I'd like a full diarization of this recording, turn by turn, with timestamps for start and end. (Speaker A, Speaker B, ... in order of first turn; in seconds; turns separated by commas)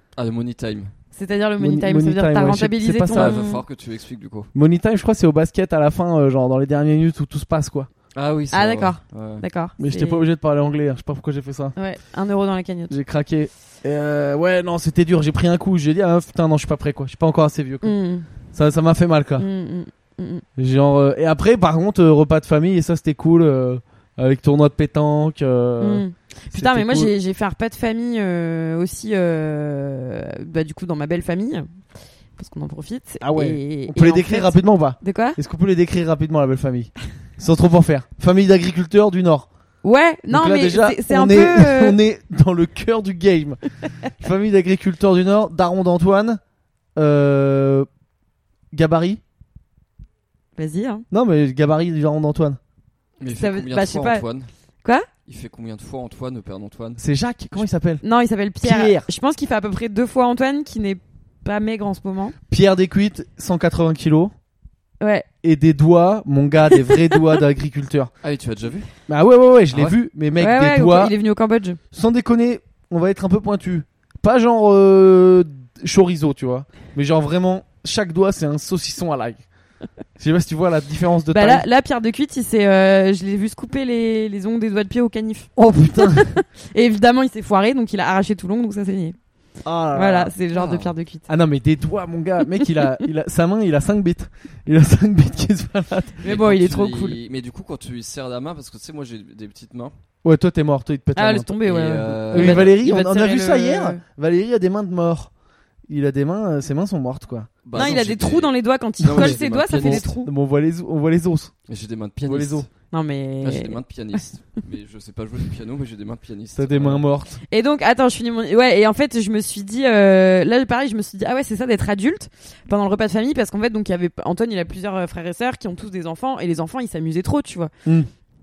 Speaker A: 0.2-0.9, Speaker B: 1.1-3.6, Speaker C: 1.6-3.4, Speaker A: 3.1-4.5, Speaker C: 4.5-7.9, Speaker A: 8.1-9.4, Speaker B: 8.5-10.2, Speaker C: 9.8-11.8, Speaker B: 11.8-12.9, Speaker C: 12.9-17.9, Speaker B: 17.8-18.3, Speaker C: 18.5-19.5, Speaker B: 19.4-20.4, Speaker C: 20.6-27.1, Speaker B: 25.8-31.7, Speaker B: 32.4-35.4, Speaker C: 33.2-39.5, Speaker B: 39.8-42.0, Speaker C: 40.3-46.4, Speaker C: 47.0-47.9, Speaker C: 48.7-49.2, Speaker B: 50.6-51.1, Speaker C: 51.1-52.6, Speaker A: 53.2-54.5, Speaker B: 53.3-54.2, Speaker A: 55.3-57.0, Speaker C: 57.0-58.0, Speaker B: 58.0-62.4, Speaker C: 58.6-59.1, Speaker C: 62.5-64.3, Speaker B: 65.0-65.3, Speaker C: 65.4-68.1, Speaker A: 68.2-68.9, Speaker C: 69.1-71.1, Speaker B: 70.4-71.8, Speaker C: 71.9-79.4, Speaker C: 80.2-81.7, Speaker B: 81.3-89.2, Speaker C: 85.6-86.3, Speaker C: 89.6-90.3, Speaker B: 89.9-91.3, Speaker A: 90.5-90.9, Speaker C: 91.3-96.2, Speaker B: 92.5-93.0, Speaker B: 96.2-97.2, Speaker A: 96.2-100.0, Speaker C: 100.2-101.6, Speaker B: 101.2-104.0, Speaker A: 101.6-102.8, Speaker C: 102.3-105.3, Speaker C: 105.9-108.0, Speaker A: 107.7-110.1, Speaker B: 107.8-110.3, Speaker C: 109.0-111.5, Speaker A: 111.7-112.7, Speaker C: 112.2-112.7, Speaker B: 112.9-113.8, Speaker A: 113.4-117.0, Speaker C: 116.6-117.4, Speaker B: 117.5-127.7, Speaker C: 127.8-128.1